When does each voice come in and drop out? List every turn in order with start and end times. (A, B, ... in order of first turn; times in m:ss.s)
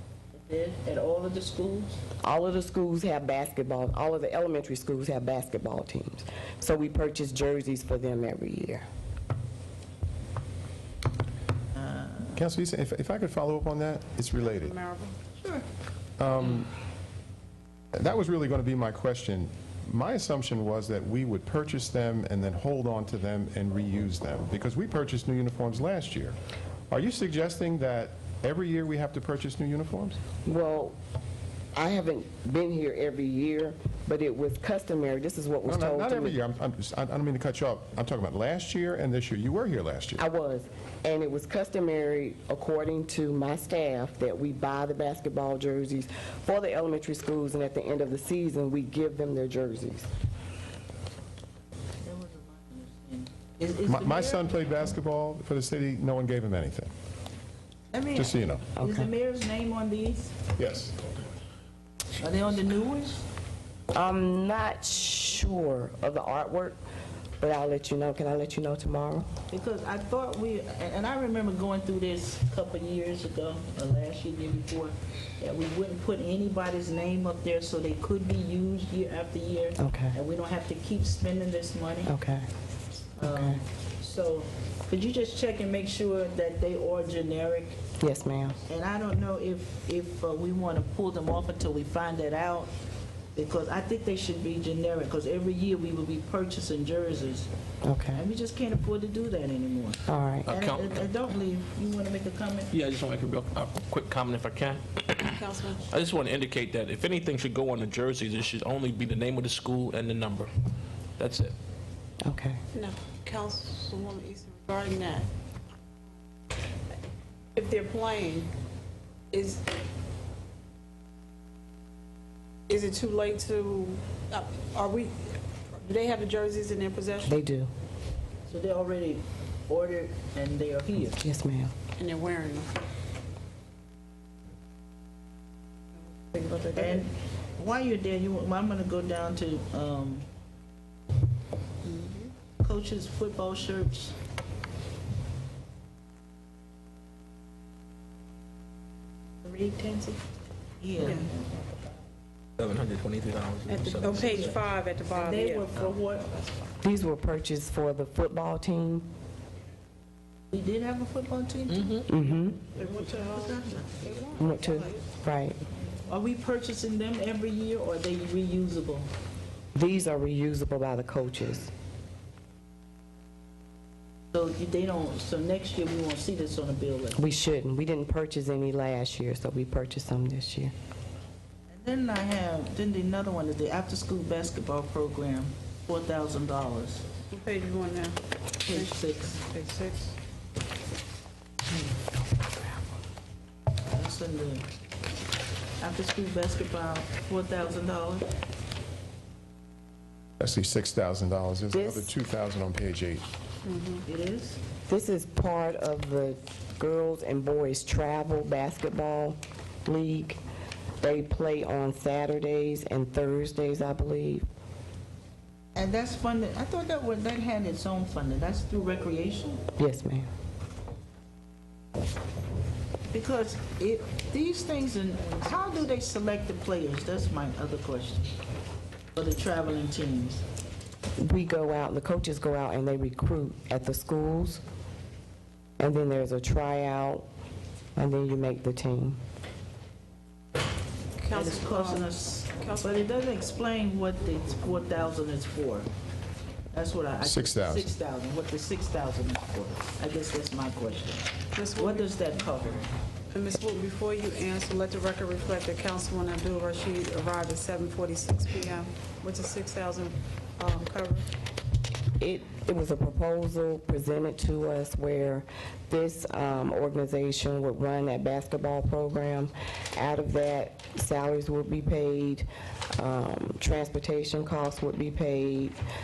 0:00.3-0:02.0 A
0:02.2-0:08.9 B
0:11.7-0:12.3 A
0:12.3-0:14.8 C
0:14.5-0:15.2 D
0:15.4-0:15.6 A
0:16.2-0:16.7 C
0:17.9-0:26.4 C
0:26.9-0:30.2 C
0:30.5-0:31.0 B
0:31.7-0:36.4 B
0:35.7-0:40.2 C
0:40.2-0:50.1 B
0:52.0-0:54.5 A
0:53.9-0:56.9 C
0:57.9-1:00.4 A
0:58.2-0:58.7 C
0:58.8-0:59.1 B
1:00.6-1:01.0 C
1:02.2-1:03.2 A
1:03.9-1:06.8 B
1:07.4-1:09.3 B
1:09.5-1:22.1 A
1:19.8-1:20.2 B
1:22.1-1:22.5 B
1:23.2-1:27.8 A
1:23.3-1:23.6 B
1:28.0-1:28.6 B
1:28.7-1:32.7 A
1:33.4-1:37.5 A
1:37.8-1:38.2 B
1:38.1-1:42.7 A
1:40.1-1:40.5 B
1:40.5-1:41.1 E
1:42.7-1:50.5 E
1:45.3-1:45.9 D
1:51.2-1:51.5 E
1:52.2-1:52.6 B
1:52.7-1:55.3 D
1:57.6-1:58.5 D
1:59.3-1:59.6 D
2:02.7-2:05.2 D
2:05.8-2:07.4 D
2:07.3-2:07.7 B
2:08.5-2:11.2 A
2:11.2-2:11.7 B
2:12.0-2:12.7 D
2:16.3-2:17.1 D
2:16.7-2:20.3 A
2:21.8-2:22.3 D
2:22.6-2:24.2 A
2:29.4-2:30.2 D
2:30.8-2:31.5 A
2:31.0-2:31.3 D
2:32.6-2:34.6 E
2:33.7-2:35.7 D
2:34.0-2:36.5 A
2:36.8-2:39.0 B
2:40.5-2:42.1 A
2:41.7-2:42.0 E
2:42.1-2:42.6 B
2:42.8-2:45.0 D
2:42.8-2:44.8 A
2:44.4-2:45.6 B
2:46.1-2:49.1 A
2:49.8-2:51.7 B
2:54.3-2:57.2 A
2:57.2-3:00.7 B
3:01.7-3:07.1 A
3:07.3-3:08.9 D
3:08.6-3:09.4 A
3:09.4-3:10.1 D
3:13.9-3:14.6 A
3:15.8-3:18.3 A
3:20.4-3:23.2 C
3:21.7-3:22.1 B
3:23.7-3:24.0 D
3:24.1-3:24.6 A
3:24.9-3:30.4 B
3:31.0-3:34.5 B
3:35.8-3:39.7 A
3:39.8-3:40.3 B
3:43.1-3:48.3 A
3:49.2-3:50.4 A
3:51.2-3:54.6 B
3:55.8-3:57.3 B
3:58.0-3:59.2 B
4:01.2-4:03.1 D
4:01.3-4:05.9 A
4:06.7-4:12.9 A
4:07.2-4:07.9 C
4:11.5-4:12.2 D
4:13.3-4:21.3 D
4:22.2-4:35.8 B